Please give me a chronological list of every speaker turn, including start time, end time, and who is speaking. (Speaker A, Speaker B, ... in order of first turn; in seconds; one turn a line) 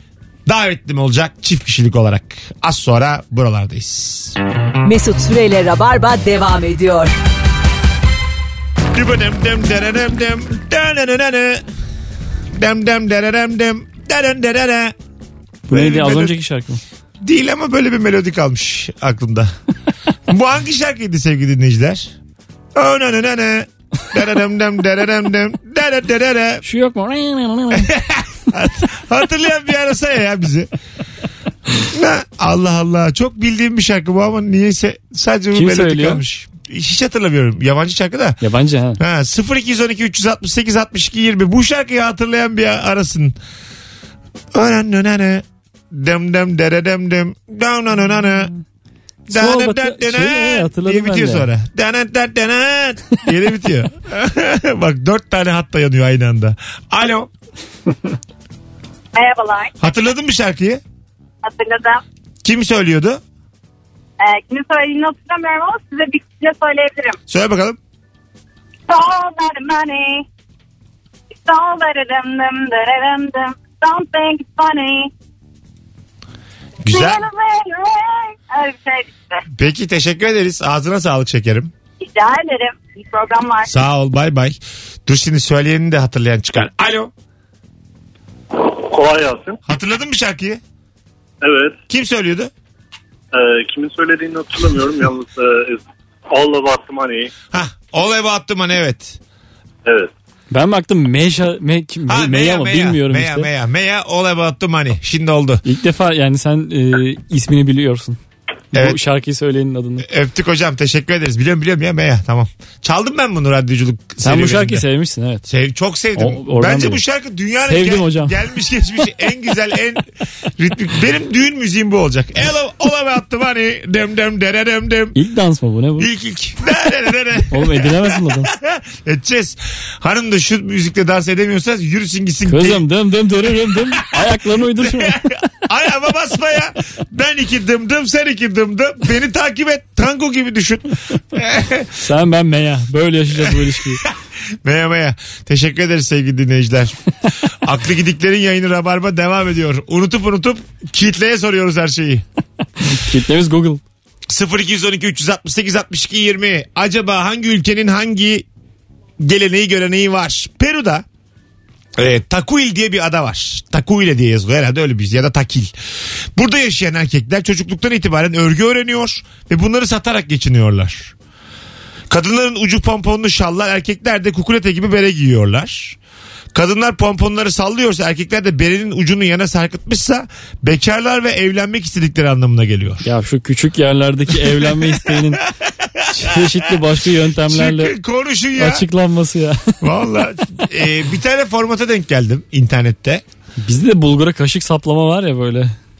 Speaker A: 0.5-4.4
Speaker B: 4.8-7.1
Speaker A: 8.9-11.6
Speaker A: 12.5-14.9
Speaker C: 15.7-16.8
Speaker A: 15.7-16.4
Speaker A: 17.2-19.5
Speaker A: 20.3-22.1
Speaker A: 22.8-26.6
Speaker C: 26.6-27.9
Speaker A: 27.7-30.7
Speaker A: 31.9-38.4
Speaker C: 35.5-36.2
Speaker C: 38.4-39.0
Speaker A: 39.0-43.4
Speaker A: 44.5-48.5
Speaker C: 49.3-51.5
Speaker A: 49.3-57.3
Speaker D: 59.1-59.7
Speaker A: 59.8-60.8
Speaker D: 61.4-62.0
Speaker A: 62.4-63.2
Speaker D: 64.2-67.2
Speaker A: 67.3-67.8
Speaker D: 68.9-70.3
Speaker D: 71.4-75.1
Speaker A: 76.9-77.2
Speaker D: 76.9-79.4
Speaker A: 79.5-81.7
Speaker D: 82.0-83.7
Speaker A: 83.7-87.1
Speaker E: 88.7-89.6
Speaker A: 89.7-90.6
Speaker E: 91.4-91.8
Speaker A: 91.9-92.5
Speaker E: 93.3-97.3
Speaker A: 97.5-99.2
Speaker E: 99.9-100.1
Speaker C: 100.5-103.5
Speaker A: 102.1-105.6
Speaker C: 105.6-108.2
Speaker C: 108.7-110.1
Speaker A: 108.7-109.0
Speaker A: 110.0-114.9
Speaker C: 114.2-115.5
Speaker A: 115.5-125.2
Speaker C: 116.2-117.0
Speaker C: 117.6-118.4
Speaker C: 125.2-126.1
Speaker A: 126.0-132.9
Speaker C: 127.5-128.5
Speaker C: 132.5-135.2
Speaker A: 133.7-141.9
Speaker C: 142.0-144.0
Speaker A: 143.4-144.1
Speaker A: 144.6-147.0
Speaker A: 147.6-152.2
Speaker C: 152.9-153.8
Speaker A: 154.3-158.4
Speaker A: 159.2-161.1
Speaker A: 162.0-165.7
Speaker A: 166.3-171.1
Speaker A: 172.1-176.0
Speaker A: 176.5-183.1
Speaker C: 183.0-185.4
Speaker A: 184.3-186.8
Speaker C: 186.1-187.9
Speaker A: 187.4-188.9
Speaker C: 188.6-189.7
Speaker A: 189.8-193.2
Speaker C: 193.6-195.8